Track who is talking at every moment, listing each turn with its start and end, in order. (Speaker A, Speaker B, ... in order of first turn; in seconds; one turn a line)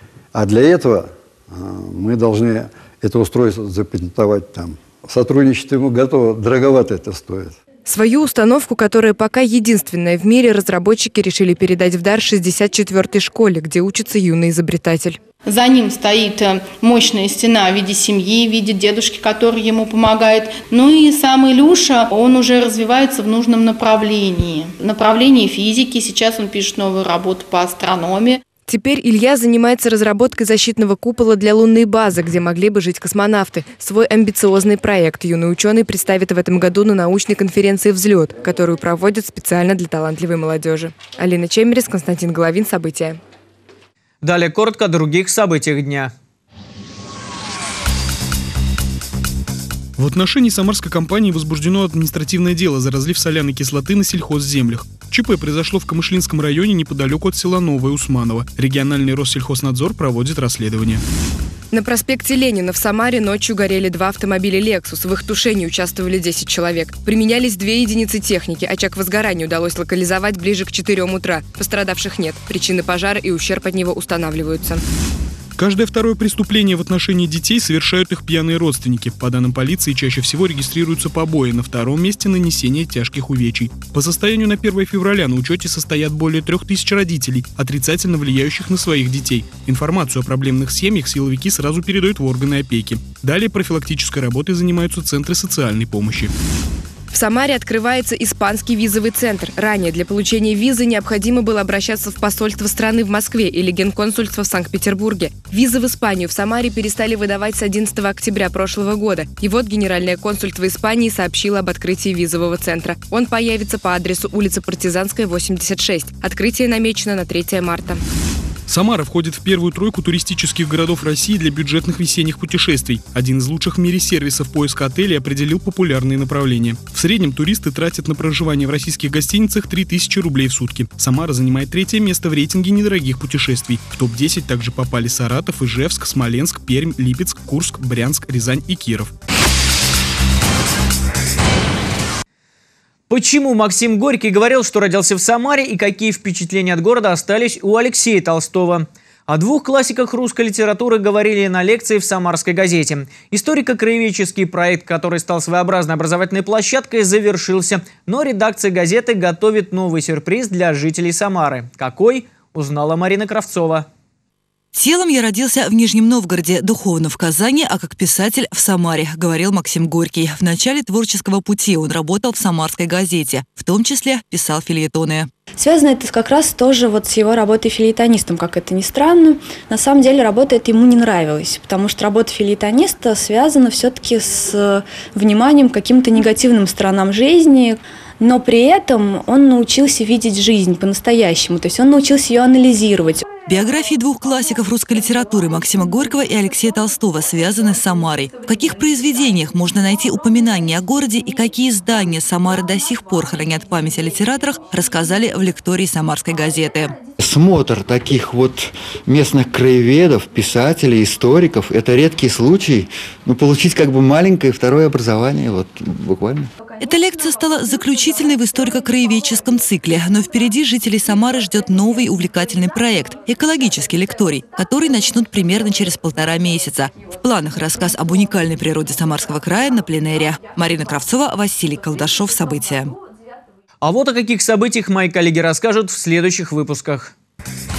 Speaker A: 0.3-7.5
Speaker B: 7.9-15.2
Speaker C: 15.4-28.4
Speaker B: 28.7-43.2
Speaker D: 44.2-46.1
Speaker E: 50.0-61.0
Speaker B: 61.7-74.8
Speaker E: 75.6-96.3
Speaker B: 97.1-118.0
Speaker E: 118.7-139.1
Speaker D: 143.1-163.9
Speaker F: 164.7-175.3
Speaker G: 175.6-193.2
Speaker F: 193.5-206.9
Speaker H: 207.3-216.4
Speaker F: 216.8-232.9
Speaker D: 233.8-237.1